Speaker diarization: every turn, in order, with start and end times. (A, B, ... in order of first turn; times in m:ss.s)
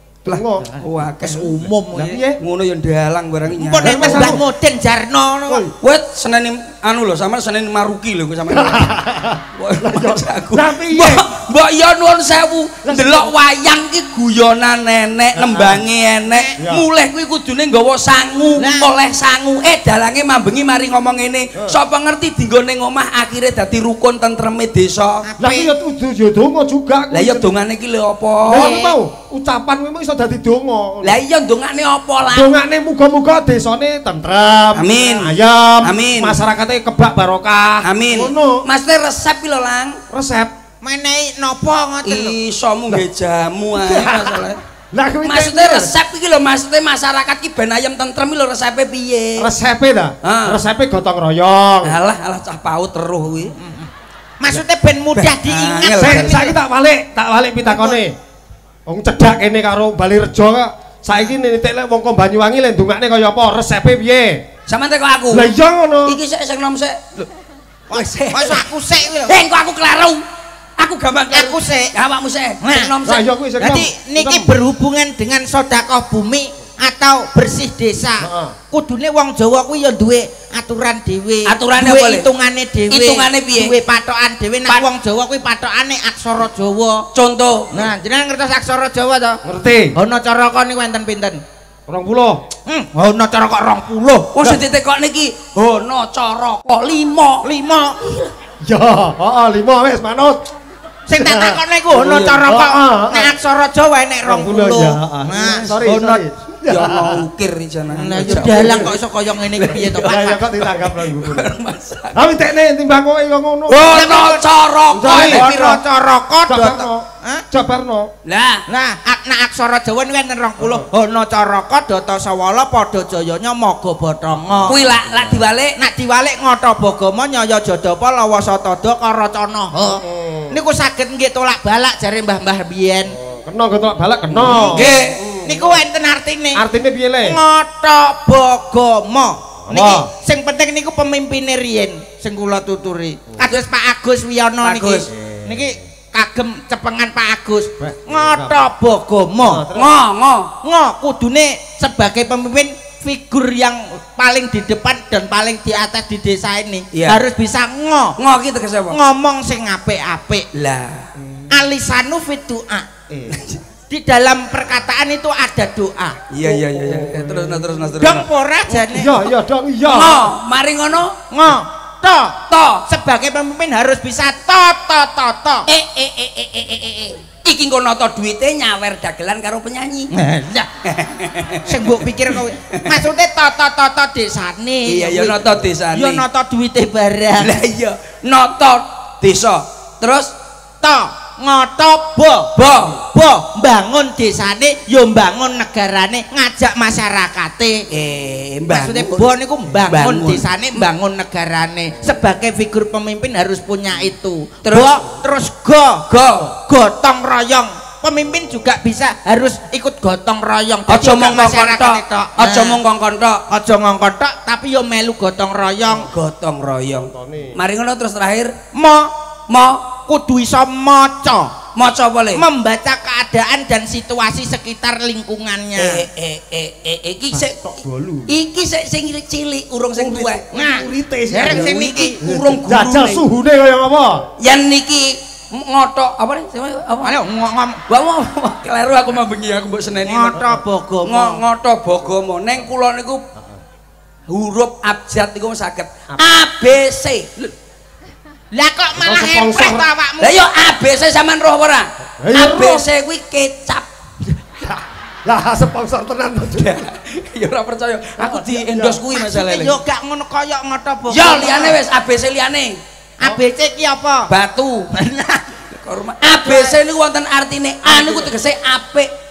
0:00.2-0:04.4 A
0:00.2-0:02.4 B
0:01.4-0:02.1 C
0:03.5-0:05.6 C
0:03.8-0:04.4 B
0:05.5-0:05.7 B
0:05.8-0:08.9 A
0:08.5-0:11.3 B
0:09.6-0:25.2 A
0:12.8-0:13.3 B
0:15.3-0:15.8 B
0:16.6-0:16.8 B
0:18.6-0:18.9 C
0:25.2-0:25.7 C
0:25.4-0:27.6 B
0:27.1-0:28.7 A
0:28.5-0:31.2 B
0:28.5-0:29.0 C
0:31.0-0:32.5 A
0:32.3-0:38.6 B
0:34.7-0:36.4 A
0:37.8-0:40.0 A
0:40.1-0:40.5 B
0:40.8-0:42.4 C
0:42.0-0:44.6 A
0:43.8-0:45.9 B
0:45.2-0:49.5 A
0:49.4-0:52.0 B
0:50.2-0:50.6 A
0:51.8-0:53.6 A
0:53.6-0:56.6 C
0:55.1-0:56.4 A
0:56.0-0:58.1 B
0:57.6-0:58.0 C
0:58.8-1:04.4 B
1:04.7-1:05.5 A
1:05.3-1:06.2 B
1:06.0-1:07.3 A
1:07.9-1:08.7 A
1:07.9-1:09.4 C
1:09.2-1:10.2 A
1:10.8-1:13.2 A
1:11.3-1:11.9 C
1:12.6-1:12.9 C
1:13.0-1:13.9 B
1:13.6-1:27.0 C
1:14.2-1:14.5 A
1:18.2-1:18.6 B
1:21.4-1:22.3 A
1:22.9-1:23.8 A
1:27.1-1:27.7 A
1:27.7-1:29.4 C
1:29.4-1:29.9 B
1:29.9-1:31.4 C
1:31.9-1:32.4 B
1:32.7-1:34.3 C
1:34.3-1:37.4 A
1:37.4-1:38.2 C
1:38.6-1:40.4 B
1:41.1-1:46.2 C
1:41.1-1:41.6 B
1:41.9-1:42.4 A
1:42.4-1:43.3 B
1:44.2-1:47.2 B
1:45.3-1:45.7 A
1:46.7-1:52.2 A
1:47.9-1:50.4 C
1:48.1-1:48.9 B
1:49.9-1:51.5 B
1:52.1-1:54.0 B
1:53.7-1:55.8 A
1:53.9-1:54.5 C
1:54.9-1:55.7 B
1:55.3-1:57.4 C
1:56.5-1:58.1 B
1:58.2-1:58.6 A
1:58.7-2:04.8 C
2:00.6-2:00.9 B
2:04.5-2:05.4 B
2:04.7-2:05.7 A
2:05.8-2:13.2 C
2:09.8-2:10.6 B
2:13.1-2:15.8 B
2:14.3-2:15.2 A
2:15.4-2:16.6 C
2:16.5-2:17.4 B
2:17.2-2:29.7 C
2:19.6-2:20.1 B
2:24.6-2:25.1 A
2:25.1-2:25.8 B
2:27.8-2:28.7 B
2:29.4-2:29.9 B
2:29.7-2:30.5 A
2:30.6-2:38.2 C
2:36.9-2:37.2 A
2:38.2-2:39.0 A
2:38.9-2:40.5 C
2:40.5-2:41.1 A
2:41.2-2:41.5 B
2:41.5-2:42.9 C
2:43.1-2:43.4 B
2:43.3-2:43.6 A
2:43.9-2:46.2 C
2:46.3-2:48.3 A
2:46.4-2:48.0 B
2:48.0-2:49.2 C
2:48.7-2:50.3 B
2:49.8-2:51.2 A
2:51.3-2:55.7 C
2:52.5-2:52.8 A
2:55.7-3:00.1 A
3:00.1-3:00.7 C
3:00.8-3:03.0 A
3:01.7-3:07.6 C
3:04.8-3:06.2 A
3:07.4-3:10.3 A
3:10.8-3:12.5 C
3:12.5-3:13.0 A
3:13.0-3:17.8 C
3:17.9-3:20.8 A
3:18.7-3:32.8 C
3:24.6-3:25.0 A
3:26.1-3:26.5 A
3:30.9-3:33.4 A
3:33.5-3:36.0 C
3:35.8-3:36.1 B
3:36.0-3:38.5 A
3:36.9-3:37.6 B
3:38.7-3:39.1 C
3:39.5-3:39.9 A
3:40.1-3:41.5 C
3:41.7-3:42.4 A
3:42.3-3:46.0 C
3:45.8-3:47.6 A
3:47.3-3:48.3 B
3:48.3-3:50.4 A
3:50.0-3:54.3 B
3:50.5-3:52.2 C
3:51.3-3:53.2 A
3:54.4-3:57.2 A
3:57.0-3:57.8 C
3:57.9-4:00.4 A
4:00.0-4:01.4 C
4:01.0-4:03.2 A
4:04.3-4:07.5 A
4:08.5-4:10.4 C
4:09.0-4:09.9 B
4:10.2-4:13.9 A
4:12.2-4:12.9 B
4:14.6-4:16.8 B
4:16.5-4:19.8 A
4:18.2-4:19.0 B
4:19.1-4:21.8 C
4:21.1-4:22.8 A
4:23.2-4:24.3 C
4:24.3-4:24.9 A
4:24.9-4:25.5 C
4:25.7-4:29.1 A
4:26.3-4:26.8 C
4:27.8-4:28.3 B